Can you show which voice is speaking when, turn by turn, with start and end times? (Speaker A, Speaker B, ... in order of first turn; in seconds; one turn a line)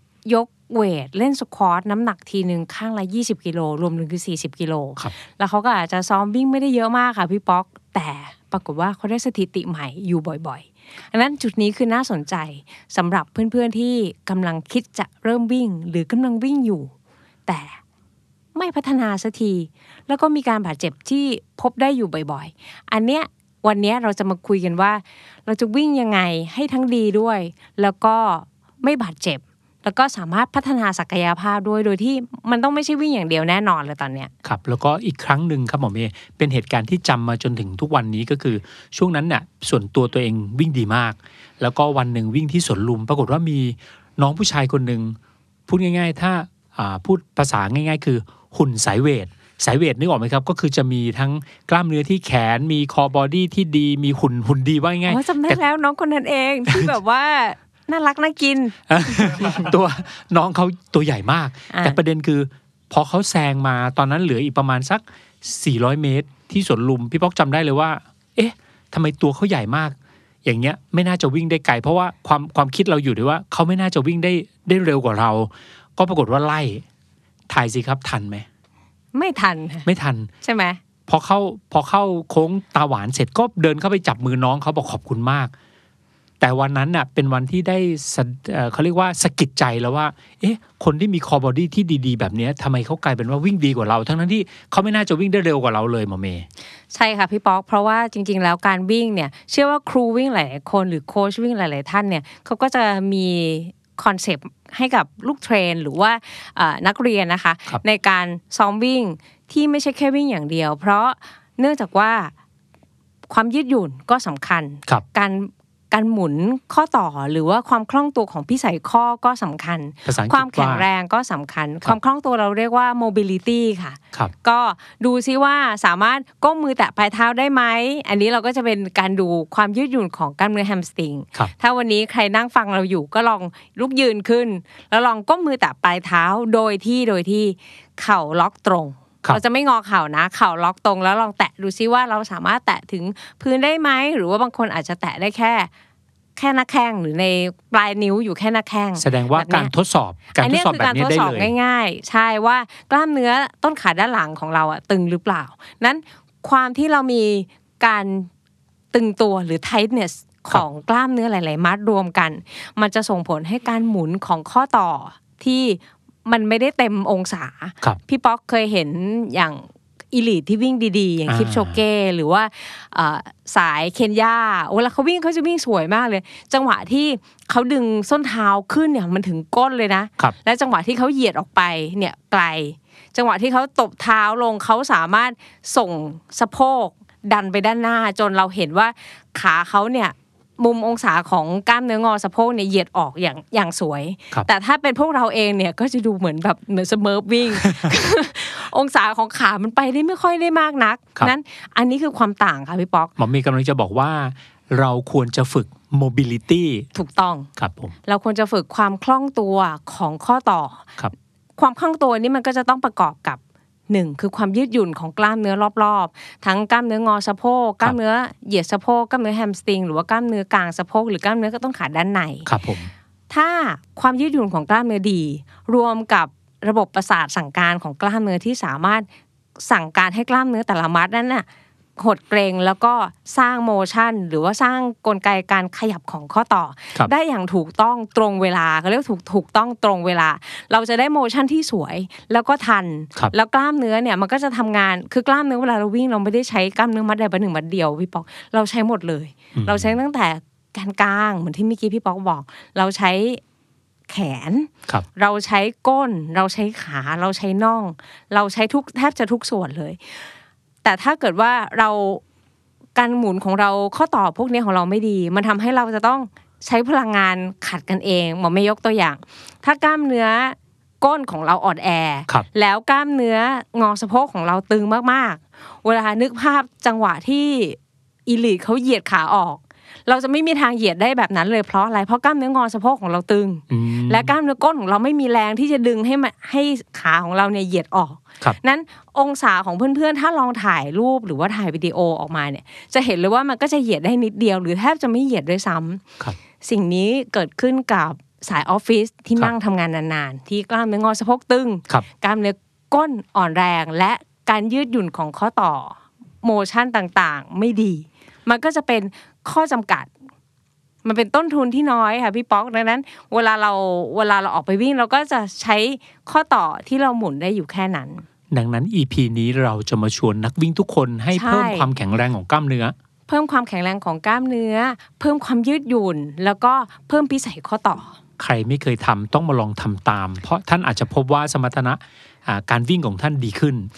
Speaker A: 0.2-16.9
Speaker A: 17.5-17.8
Speaker A: 18.5-34.3
Speaker B: 34.4-45.2
Speaker B: 45.7-55.6
Speaker A: 55.1-59.6
Speaker B: 58.9-76.8
Speaker A: 61.7-62.0
Speaker B: 77.5-78.5
Speaker A: 79.1-79.9
Speaker B: 79.8-80.3
Speaker A: 80.4-80.8
Speaker B: 81.1-85.5
Speaker B: 86.4-96.5
Speaker A: 96.9-112.3
Speaker A: 113.3-145.7
Speaker B: 120.0-120.8
Speaker A: 146.3-149.7
Speaker B: 149.0-151.5
Speaker A: 150.3-158.3
Speaker A: 158.9-203.1
Speaker B: 171.3-171.8
Speaker B: 197.5-197.9
Speaker B: 203.2-206.9
Speaker A: 206.9-207.5
Speaker B: 207.6-207.9
Speaker A: 208.1-210.9
Speaker A: 211.6-213.4
Speaker A: 213.9-222.5
Speaker B: 222.4-222.9
Speaker A: 223.3-229.1
Speaker A: 229.6-231.4
Speaker A: 232.0-253.4
Speaker B: 249.5-249.9
Speaker A: 254.1-260.0
Speaker A: 260.8-262.2
Speaker A: 262.9-296.1
Speaker B: 283.7-284.3
Speaker A: 296.6-310.1
Speaker A: 311.0-318.2
Speaker B: 318.5-322.9
Speaker A: 321.3-321.9
Speaker A: 323.3-328.1
Speaker B: 328.4-333.9